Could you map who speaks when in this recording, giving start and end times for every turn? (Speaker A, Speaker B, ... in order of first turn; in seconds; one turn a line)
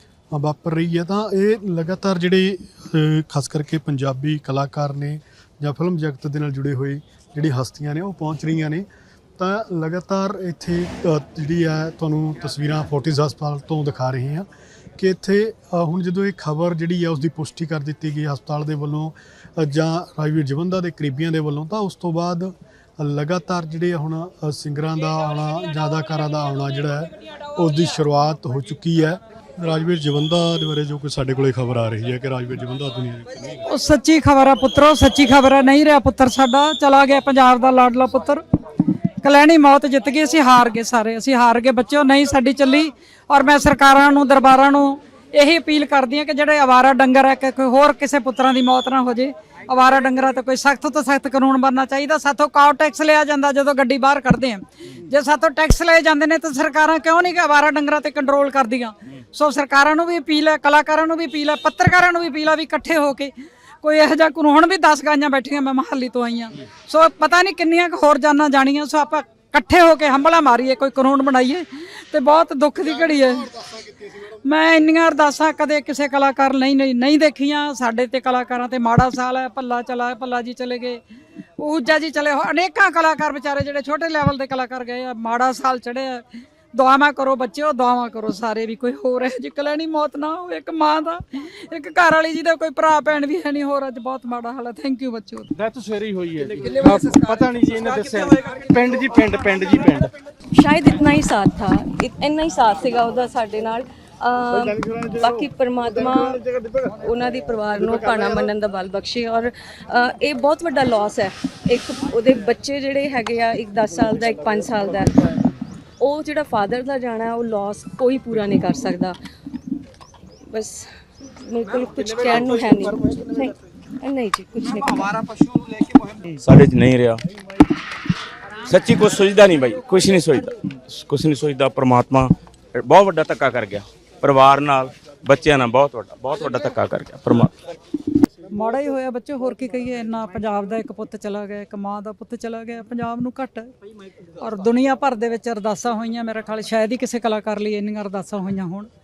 Speaker A: 0.3-8.9
Speaker A: 9.4-14.5
Speaker A: 15.0-33.6
Speaker B: 33.7-38.4
Speaker B: 39.2-73.7
Speaker B: 74.3-81.0
Speaker B: 81.6-95.5
Speaker C: 95.5-100.1
Speaker D: 100.5-106.4
Speaker D: 107.0-115.2
Speaker D: 116.0-119.2
Speaker D: 120.5-120.9
Speaker D: 121.4-125.2
Speaker E: 126.4-127.2
Speaker E: 128.6-137.5
Speaker B: 138.5-143.7
Speaker B: 144.4-148.9